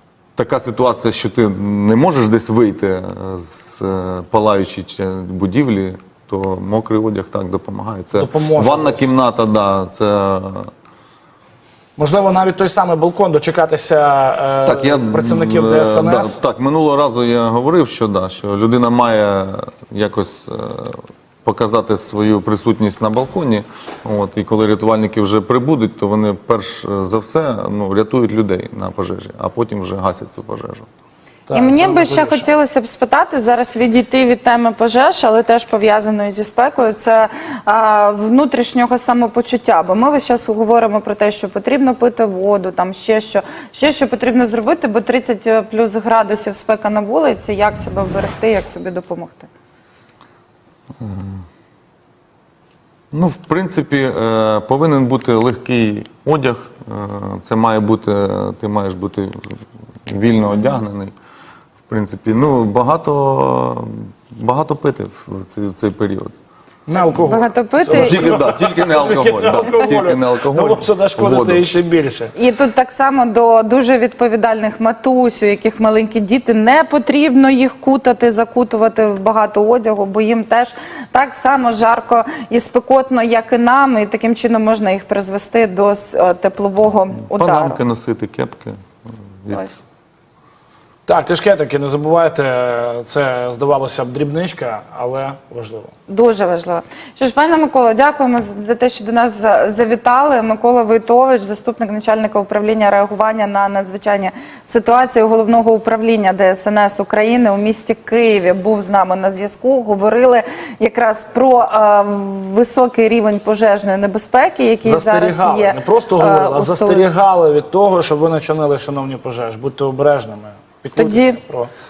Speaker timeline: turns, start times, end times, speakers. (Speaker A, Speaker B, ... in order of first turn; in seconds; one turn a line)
Speaker A: 0.3-10.7
Speaker B: 8.1-9.1
Speaker B: 12.0-16.4
Speaker A: 14.6-30.9
Speaker B: 31.5-32.5
Speaker C: 31.5-49.5
Speaker A: 51.0-51.4
Speaker A: 53.1-59.5
Speaker A: 60.0-61.1
Speaker A: 61.9-66.3
Speaker B: 66.9-72.3
Speaker C: 67.1-68.3
Speaker A: 67.9-71.6
Speaker C: 72.3-87.8
Speaker A: 87.3-88.8
Speaker A: 89.4-89.7
Speaker B: 91.0-95.9
Speaker C: 96.1-117.1
Speaker B: 114.8-121.7
Speaker C: 121.0-121.4